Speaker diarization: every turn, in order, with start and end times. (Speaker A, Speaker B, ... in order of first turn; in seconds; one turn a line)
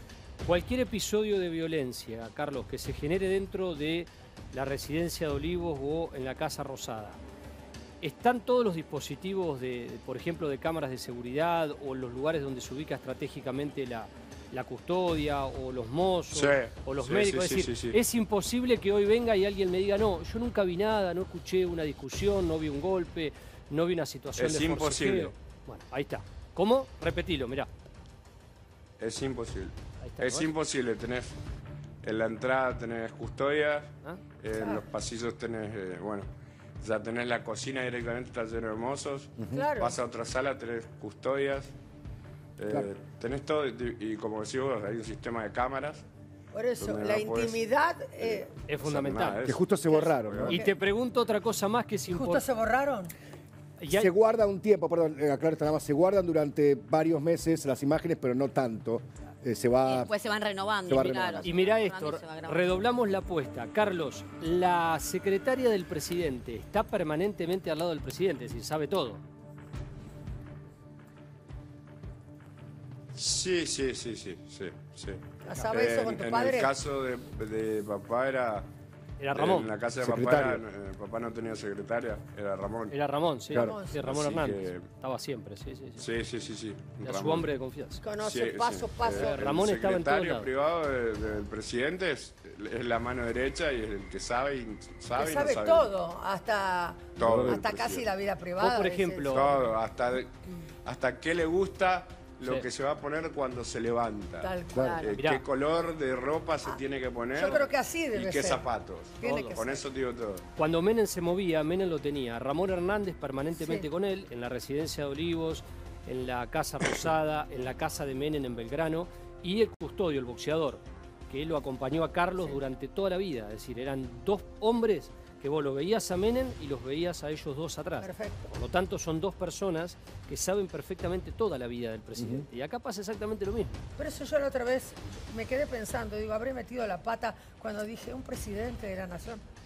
Speaker A: 0.4-7.2
Speaker A: 8.0-27.7
Speaker B: 16.3-18.0
Speaker B: 24.4-25.3
Speaker B: 29.0-31.4
Speaker A: 30.0-30.5
Speaker B: 32.0-36.3
Speaker C: 34.5-34.8
Speaker B: 36.8-41.7
Speaker C: 39.5-40.0
Speaker B: 42.6-46.0
Speaker C: 46.5-48.6
Speaker B: 46.8-47.6
Speaker B: 48.2-50.6
Speaker A: 48.7-49.4
Speaker D: 49.4-50.5
Speaker A: 50.5-52.4
Speaker C: 52.1-53.1
Speaker A: 53.8-54.1
Speaker D: 53.9-60.1
Speaker E: 59.8-62.8
Speaker D: 60.9-61.5
Speaker A: 61.4-69.2
Speaker B: 73.1-78.7
Speaker C: 75.4-76.7
Speaker A: 79.2-79.7
Speaker B: 79.3-83.0
Speaker D: 80.0-80.6
Speaker A: 82.9-86.0
Speaker C: 83.5-84.1
Speaker D: 83.5-83.8
Speaker B: 83.9-84.9
Speaker B: 86.0-87.5
Speaker A: 87.0-88.0
Speaker C: 88.0-89.6
Speaker B: 88.2-95.9
Speaker A: 89.1-90.5
Speaker C: 95.1-99.8
Speaker B: 97.2-98.1
Speaker D: 97.2-97.6
Speaker A: 98.6-99.5
Speaker B: 99.3-110.5
Speaker A: 102.4-102.7
Speaker C: 104.4-105.1
Speaker E: 104.8-105.1
Speaker A: 105.1-105.4
Speaker C: 107.3-108.7
Speaker C: 109.2-109.8
Speaker A: 110.6-133.8
Speaker C: 113.6-113.9
Speaker C: 128.0-128.6
Speaker D: 132.2-132.5
Speaker C: 134.0-139.4